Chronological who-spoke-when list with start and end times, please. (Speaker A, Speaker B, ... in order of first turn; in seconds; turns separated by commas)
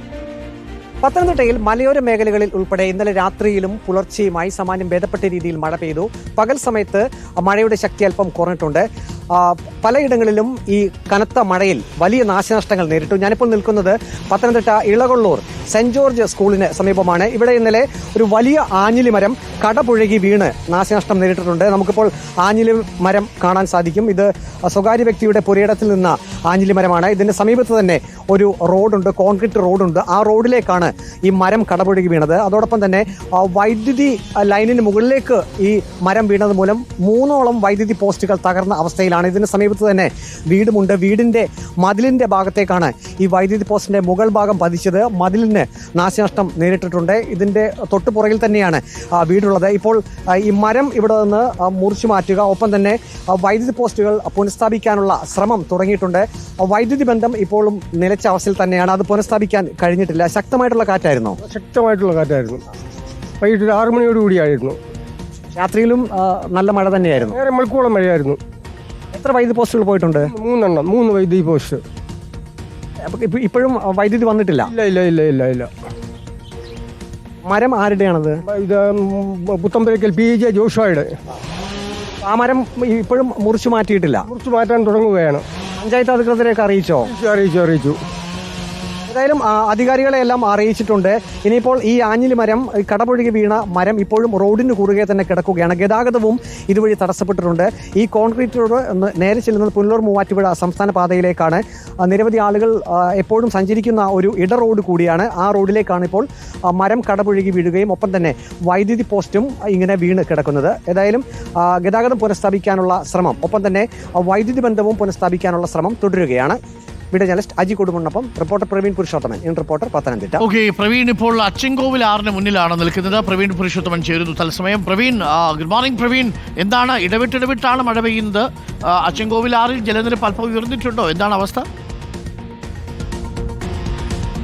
Speaker A: 1.0-61.4, Speaker B: 61.4-62.6, Speaker B: 63.4-64.8, Speaker A: 65.5-67.4, Speaker B: 67.3-68.4, Speaker A: 69.1-70.3, Speaker B: 70.3-71.8, Speaker A: 73.0-74.7, Speaker B: 74.7-75.7, Speaker A: 77.4-78.4, Speaker B: 78.5-81.1, Speaker A: 82.2-84.2, Speaker B: 84.3-85.4, Speaker A: 85.8-87.1, Speaker B: 87.1-88.0, Speaker A: 89.1-116.6, Speaker A: 117.1-120.4, Speaker C: 120.4-131.7